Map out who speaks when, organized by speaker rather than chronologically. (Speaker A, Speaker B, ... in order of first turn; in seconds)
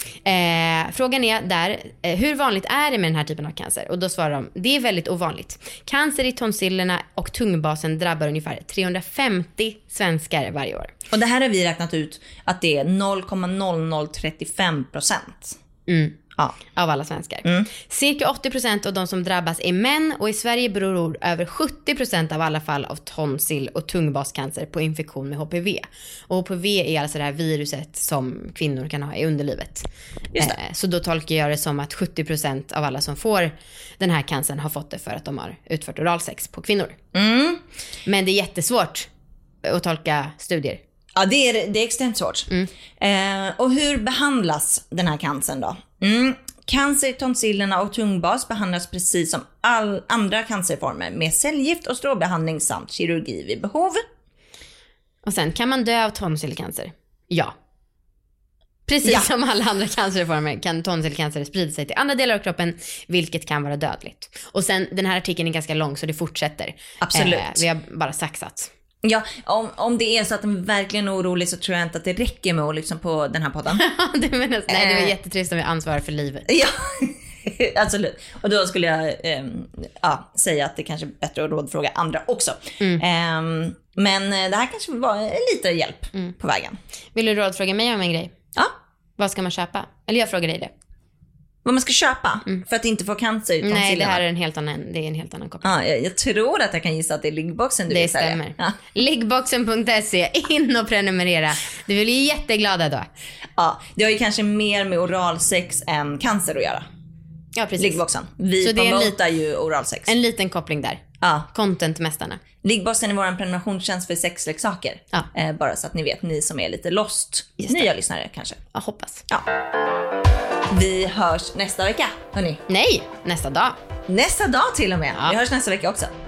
Speaker A: 0.2-10.9, 15.9-16.2, 16.7-29.9, 30.4-37.0, 38.0-39.1, 39.6-40.8, 55.2-57.5, 58.9-68.7, 73.7-76.5, 87.1-88.3, 89.2-90.7, 93.6-95.7, 97.9-103.1, 107.5-108.0, 108.6-109.2, 110.1-112.4, 117.6-117.9, 118.7-119.2, 122.7-123.8
Speaker B: 11.1-15.6, 17.4-17.7, 37.1-37.6, 41.1-42.5, 43.0-54.0, 59.0-59.3, 67.0-67.6, 69.0-73.8, 74.7-75.1, 76.5-86.8, 91.6-94.2, 95.6-98.8, 103.6-106.8, 107.8-110.1, 111.2-111.5, 112.6-118.6, 120.7-122.6, 124.1-126.1